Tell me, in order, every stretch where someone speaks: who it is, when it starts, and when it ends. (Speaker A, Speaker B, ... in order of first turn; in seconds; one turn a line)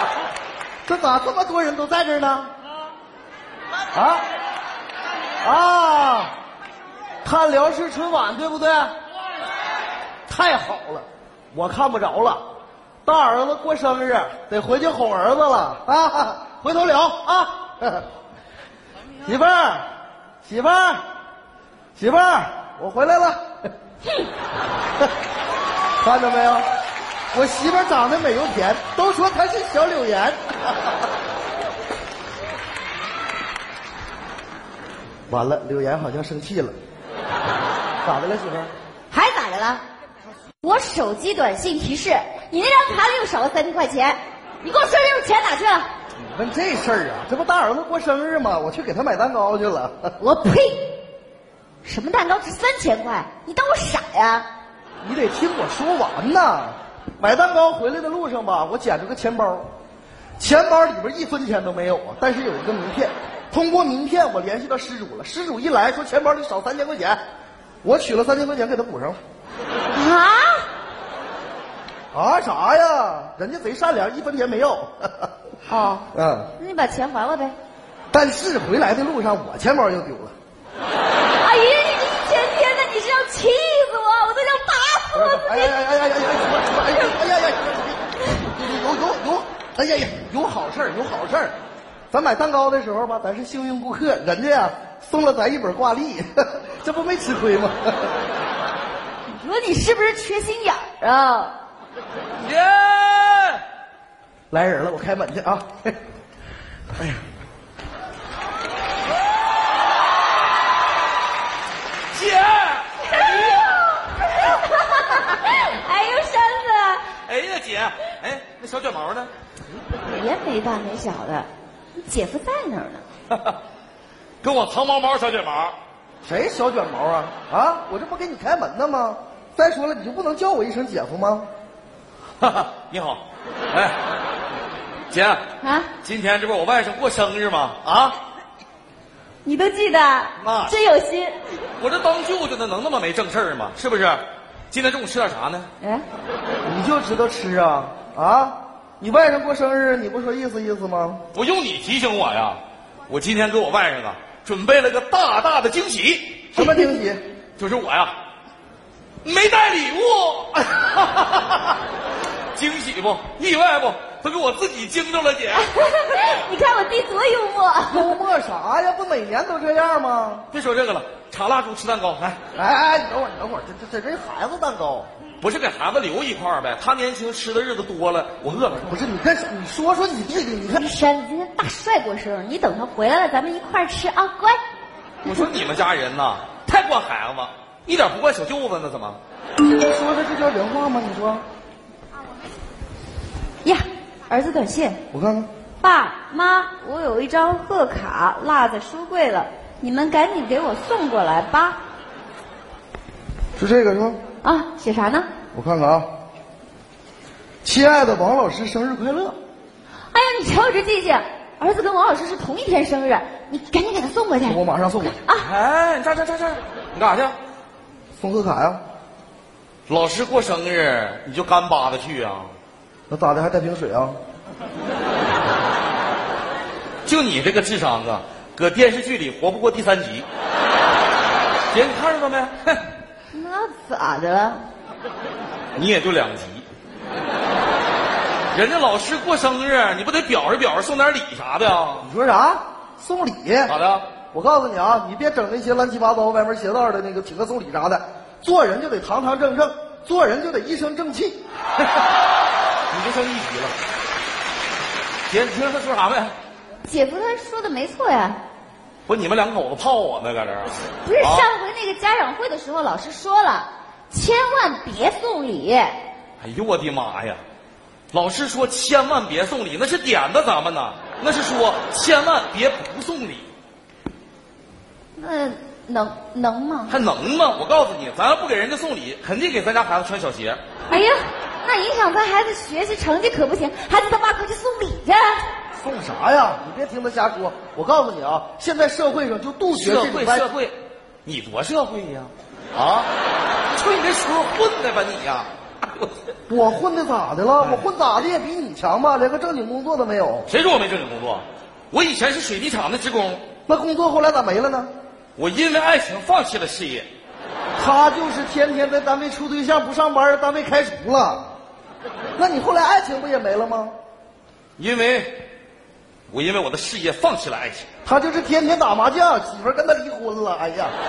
Speaker A: 0.8-2.5
Speaker A: 3.9-4.2
Speaker A: 5.4-6.3
Speaker A: 7.2-8.9
Speaker A: 10.3-12.4
Speaker A: 13.0-18.1
Speaker A: 19.2-19.9
Speaker A: 20.4-21.0
Speaker A: 21.9-23.4
Speaker A: 26.0-26.6
Speaker A: 27.3-30.6
Speaker A: 35.3-36.7
Speaker A: 38.0-38.7
Speaker B: 39.1-39.8
Speaker B: 40.6-45.9
Speaker A: 46.2-50.1
Speaker B: 50.2-50.8
Speaker B: 51.8-54.5
Speaker A: 55.0-59.7
Speaker A: 60.4-67.2
Speaker A: 67.8-69.2
Speaker B: 69.9-70.7
Speaker A: 72.1-75.3
Speaker B: 75.7-77.5
Speaker A: 76.1-76.5
Speaker A: 78.1-80.3
Speaker B: 81.4-85.7
Speaker A: 85.1-91.5
Speaker A: 92.1-98.1
Speaker B: 99.3-101.5
Speaker C: 102.4-103.6
Speaker A: 104.5-106.0
Speaker C: 112.1-113.8
Speaker B: 113.0-117.0
Speaker C: 117.2-119.3
Speaker B: 120.0-123.0
Speaker C: 123.3-123.6
Speaker C: 124.4-125.8
Speaker A: 126.2-131.5
Speaker C: 132.4-133.9
Speaker C: 135.1-135.4
Speaker B: 135.6-135.9
Speaker C: 136.0-138.2
Speaker B: 139.4-141.4
Speaker C: 140.4-140.8
Speaker C: 141.8-145.7
Speaker A: 146.6-151.2
Speaker C: 151.3-156.5
Speaker A: 156.5-157.2
Speaker B: 156.6-156.9
Speaker C: 157.6-158.2
Speaker C: 159.2-160.9
Speaker C: 162.5-165.7
Speaker B: 165.6-168.1
Speaker A: 167.9-170.4
Speaker C: 170.5-172.4
Speaker A: 172.5-175.1
Speaker C: 175.4-178.9
Speaker A: 178.8-180.8
Speaker B: 180.7-184.6
Speaker C: 185.2-189.2
Speaker A: 189.6-191.4
Speaker B: 193.6-195.0
Speaker A: 195.1-195.5
Speaker B: 195.8-201.8
Speaker A: 203.6-204.2
Speaker B: 204.4-205.3
Speaker A: 205.5-206.1
Speaker A: 207.6-209.3
Speaker B: 210.1-215.5
Speaker A: 214.4-215.2
Speaker C: 215.4-217.3
Speaker A: 218.2-218.8
Speaker C: 219.9-222.5
Speaker A: 223.1-224.2
Speaker C: 227.0-230.2
Speaker C: 231.7-232.8
Speaker B: 233.3-234.6
Speaker C: 235.8-236.6
Speaker C: 238.5-242.1
Speaker A: 242.0-243.7
Speaker C: 243.7-244.1
Speaker A: 244.3-251.4
Speaker C: 252.9-253.8
Speaker C: 255.3-256.3
Speaker B: 256.8-258.4
Speaker C: 259.1-261.5
Speaker B: 261.0-266.0
Speaker C: 266.4-267.4
Speaker C: 268.1-273.5
Speaker B: 275.2-276.9
Speaker C: 276.9-280.6
Speaker B: 280.9-285.4
Speaker A: 285.7-290.5
Speaker C: 289.7-293.1
Speaker C: 293.7-295.5
Speaker A: 296.5-300.5
Speaker C: 297.6-297.9
Speaker C: 300.5-303.4
Speaker A: 303.7-304.9
Speaker C: 305.4-307.1
Speaker A: 307.8-311.5
Speaker A: 312.4-313.9
Speaker C: 314.8-315.4
Speaker C: 316.3-317.9
Speaker A: 318.0-320.9